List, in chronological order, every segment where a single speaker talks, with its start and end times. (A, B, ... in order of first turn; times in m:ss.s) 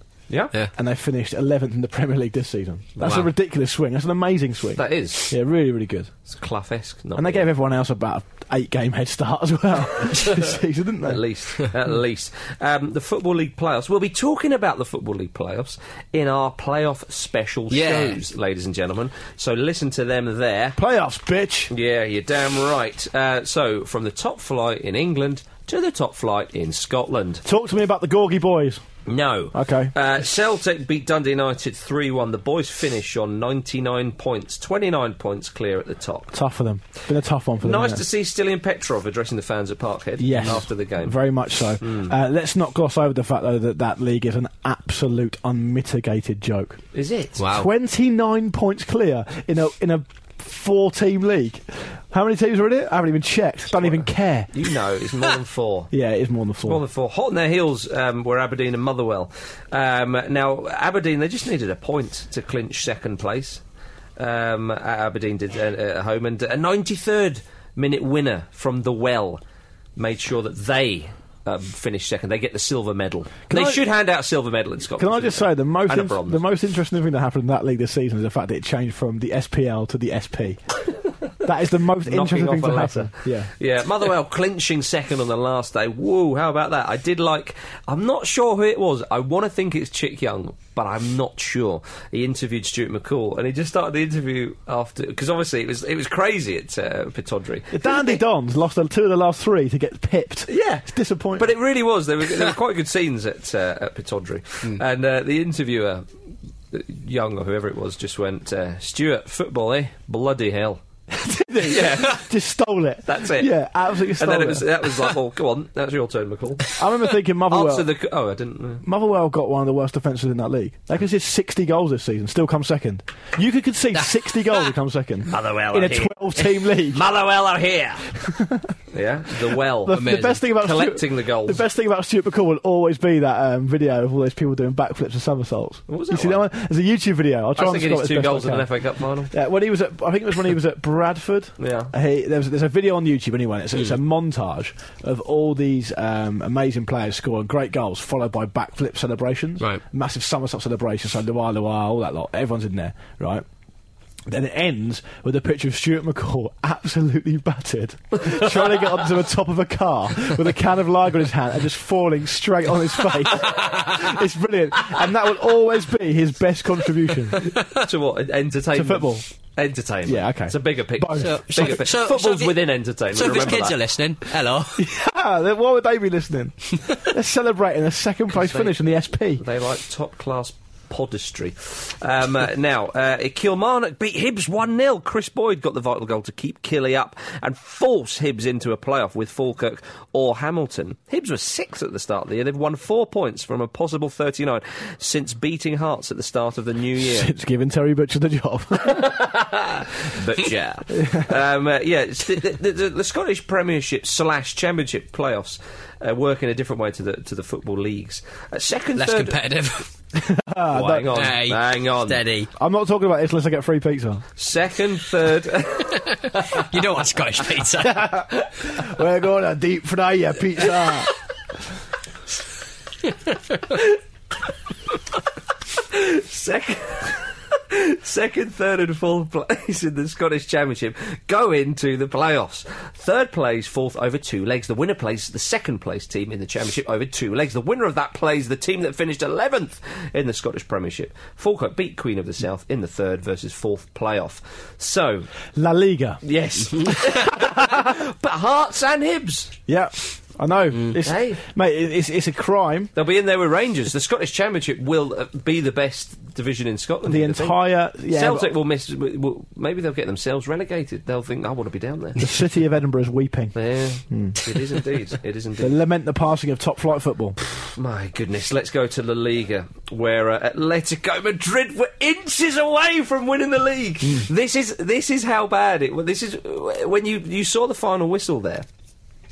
0:00.8-0:06.1 A
0:03.0-0:03.3 B
0:04.8-0:05.3 B
0:06.3-0:07.5 B
0:07.1-0:11.2 A
0:11.0-0:20.8 B
0:17.7-0:18.1 C
0:20.8-0:21.7 A
0:21.7-0:27.4 B
0:27.4-0:28.8 A
0:29.1-0:36.3 B
0:29.5-0:29.9 A
0:36.3-0:38.0 A
0:37.6-0:41.2 B
0:40.2-0:46.8 A
0:41.8-0:42.1 B
0:46.9-0:47.5 B
0:47.5-0:54.5 A
0:53.8-0:55.9 B
0:55.9-0:56.8 A
0:56.6-1:03.6 B
1:04.2-1:09.4 B
1:10.0-1:16.4 B
1:13.5-1:13.8 A
1:15.0-1:20.6 A
1:21.4-1:23.5 A
1:22.0-1:38.2 B
1:37.7-1:41.5 A
1:40.5-1:46.0 B
1:46.7-1:50.8 B
1:51.1-1:54.7 A
1:51.6-1:52.2 B
1:53.0-1:56.7 B
1:56.8-1:57.9 A
1:57.5-1:58.8 B
1:58.8-2:07.0 A
2:05.3-2:08.1 B
2:08.2-2:08.7 A
2:08.9-2:11.6 B
2:09.8-2:18.7 A
2:09.9-2:10.4 C
2:15.9-2:16.4 B
2:17.6-2:19.3 B
2:19.3-2:33.4 A
2:21.6-2:21.9 B
2:34.3-2:47.4 A
2:47.4-2:53.8 B
2:48.7-2:49.2 A
2:50.0-2:51.3 A
2:51.2-2:52.6 C
2:53.1-2:54.8 C
2:54.8-2:59.4 A
2:58.4-2:58.8 B
2:59.4-3:17.3 B
3:17.0-3:19.1 A
3:18.8-3:29.4 B
3:20.9-3:21.3 A
3:29.0-3:29.9 C
3:30.2-3:31.1 A
3:30.7-3:32.2 B
3:31.2-3:32.5 C
3:32.6-3:34.2 A
3:34.4-3:36.6 B
3:36.5-3:38.2 C
3:37.8-3:41.1 A
3:45.9-4:05.3 B
4:05.5-4:06.2 A
4:06.2-4:09.5 B
4:07.4-4:07.7 A
4:09.7-4:12.9 A
4:11.0-4:11.4 B
4:13.0-4:22.2 B
4:17.0-4:18.6 A
4:22.2-4:23.5 A
4:23.5-4:25.8 B
4:24.1-4:24.4 A
4:25.6-4:27.4 A
4:27.4-4:38.6 B
4:34.0-4:34.3 A